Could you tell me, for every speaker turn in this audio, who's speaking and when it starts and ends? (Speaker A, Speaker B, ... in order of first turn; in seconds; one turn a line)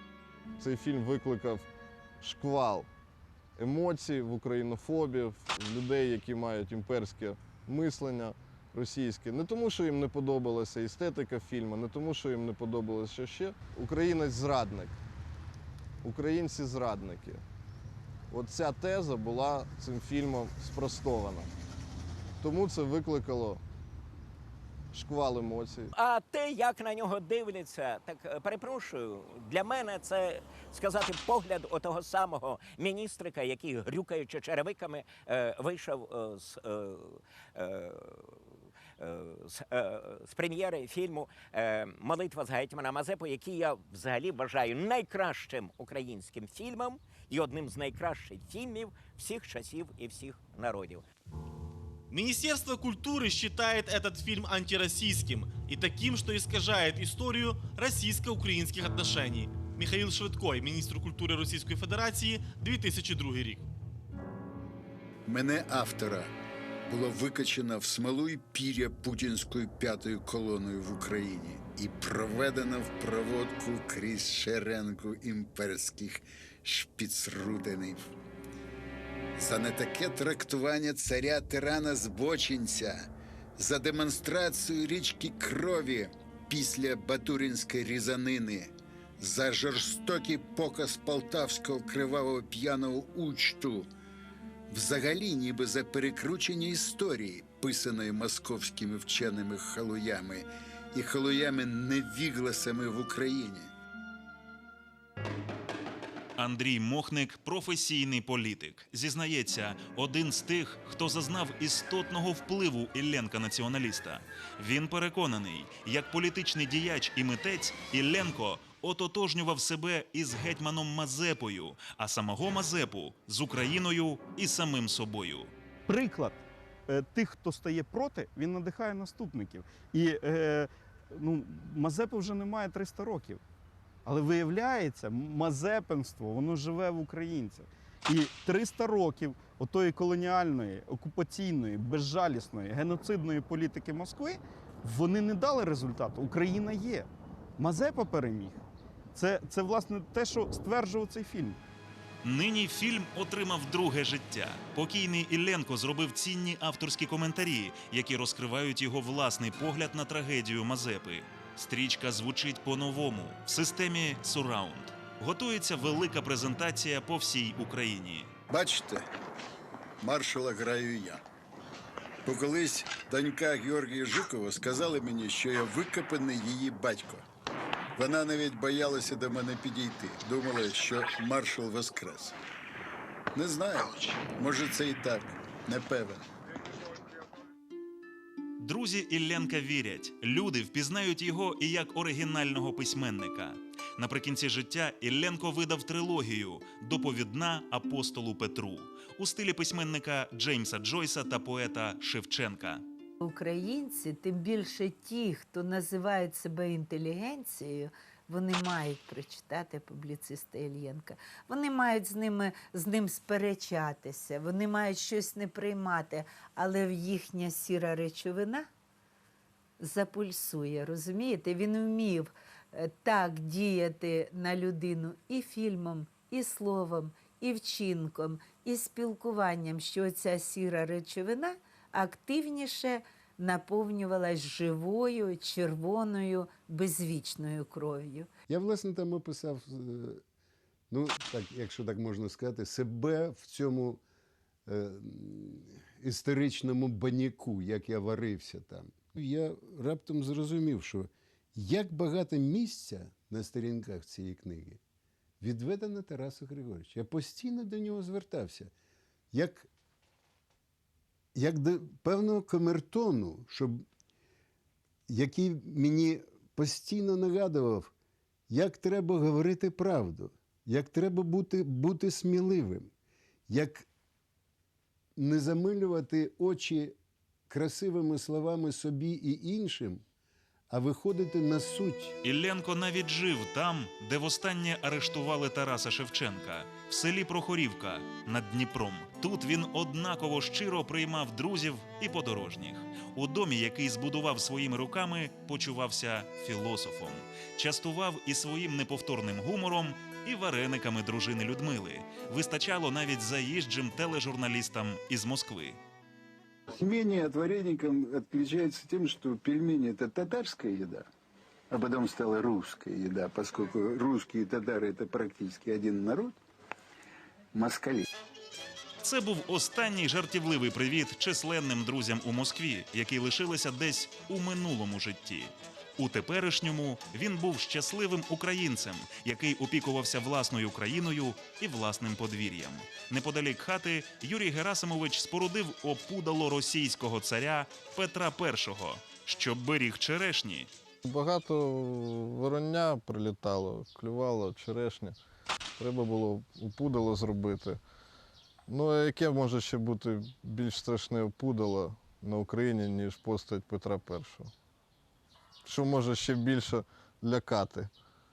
Speaker A: 0.6-1.7
Speaker A: 2.2-2.9
Speaker A: 3.6-14.9
Speaker A: 16.0-17.4
Speaker A: 18.3-21.5
Speaker A: 22.4-23.6
Speaker A: 24.9-25.9
Speaker B: 25.9-38.4
Speaker B: 39.0-51.0
Speaker C: 52.1-63.6
Speaker D: 65.3-66.3
Speaker D: 66.9-78.1
Speaker D: 79.4-93.9
Speaker D: 94.7-103.7
Speaker E: 106.4-125.5
Speaker F: 125.9-133.4
Speaker F: 134.1-148.6
Speaker F: 149.2-151.6
Speaker E: 152.2-168.3
Speaker D: 168.5-169.1
Speaker D: 170.0-171.2
Speaker D: 172.2-177.2
Speaker D: 178.0-182.4
Speaker D: 183.3-186.2
Speaker E: 188.6-202.8
Speaker G: 203.2-218.7
Speaker G: 219.8-238.3
Speaker H: 238.5-240.2
Speaker H: 240.9-244.0
Speaker H: 244.7-254.8
Speaker H: 255.4-258.7
Speaker H: 259.3-259.7
Speaker H: 261.4-263.9
Speaker H: 265.1-267.9
Speaker H: 268.5-272.9
Speaker H: 273.5-273.9
Speaker H: 275.2-277.0
Speaker H: 277.5-280.0
Speaker H: 280.7-282.2
Speaker E: 282.2-305.8
Speaker D: 306.7-311.1
Speaker D: 311.7-316.4
Speaker D: 317.5-318.1
Speaker E: 319.0-340.7
Speaker A: 341.0-345.2
Speaker A: 345.8-347.8
Speaker A: 348.7-354.5
Speaker A: 355.6-357.9